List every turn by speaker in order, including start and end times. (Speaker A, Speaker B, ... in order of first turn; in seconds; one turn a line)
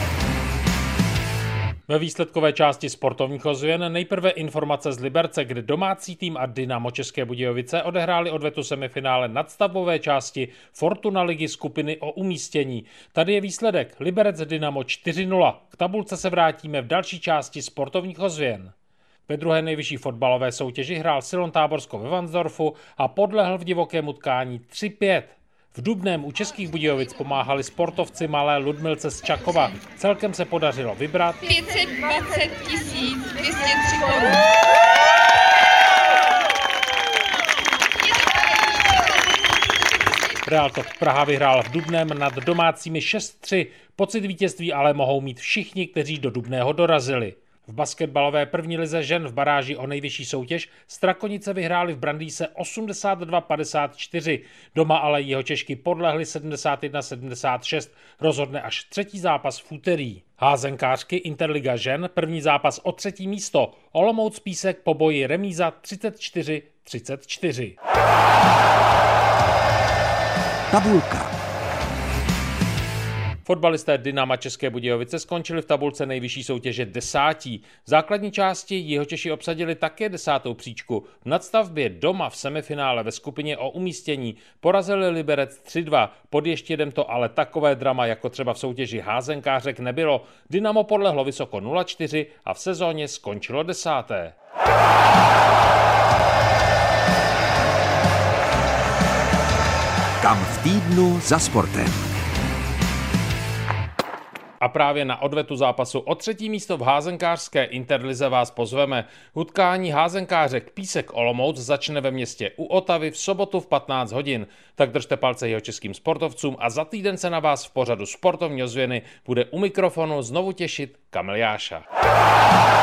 Speaker A: 1.9-18.7
Speaker A: 19.3-31.6
Speaker B: 31.7-34.4
Speaker A: 40.4-67.7
Speaker C: 70.7-71.3
Speaker A: 73.5-94.3
Speaker C: 100.2-102.1
Speaker A: 104.6-121.8